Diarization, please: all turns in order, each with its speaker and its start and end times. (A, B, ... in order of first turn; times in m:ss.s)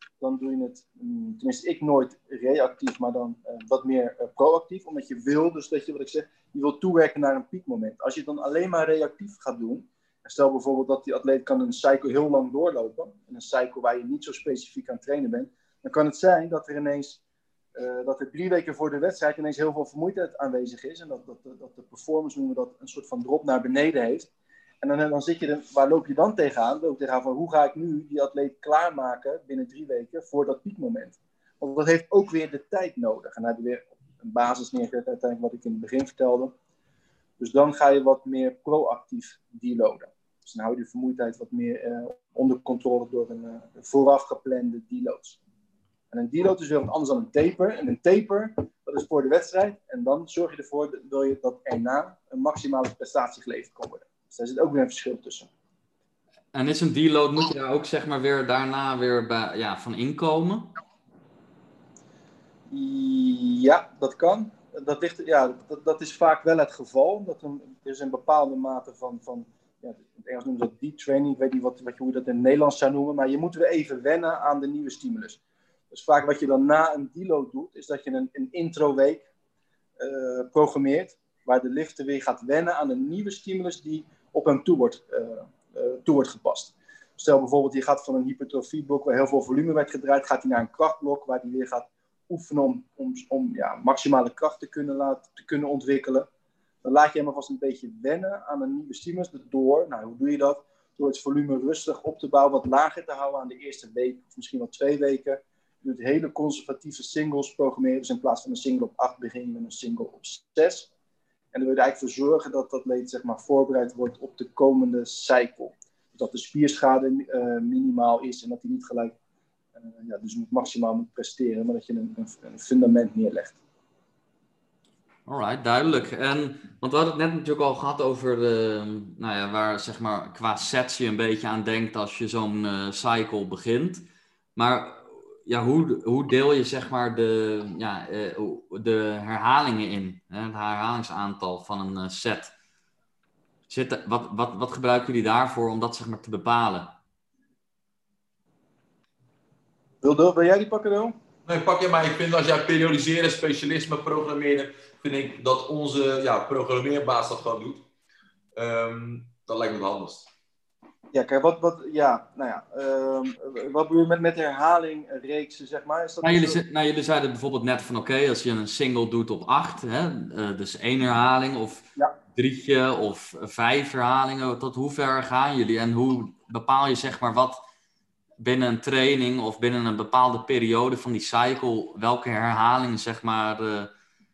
0:00.2-0:17.2 A
0:17.8-0:24.3 A
0:24.8-0:36.5 A
0:37.4-0:45.4 A
0:46.1-0:55.5 A
0:56.5-1:00.7 B
1:02.7-1:15.4 A
1:15.9-1:19.2 A
1:20.0-1:36.2 A
1:36.8-1:50.9 A
1:51.5-1:59.1 A
2:00.0-2:03.6 A
2:05.3-2:14.0 B
2:14.6-2:22.5 B
2:23.7-2:27.0 B
2:30.0-2:31.1 A
2:31.4-2:37.8 C
2:38.6-2:40.3 C
2:41.1-2:46.6 A
2:46.2-2:57.6 B
2:58.4-3:03.9 B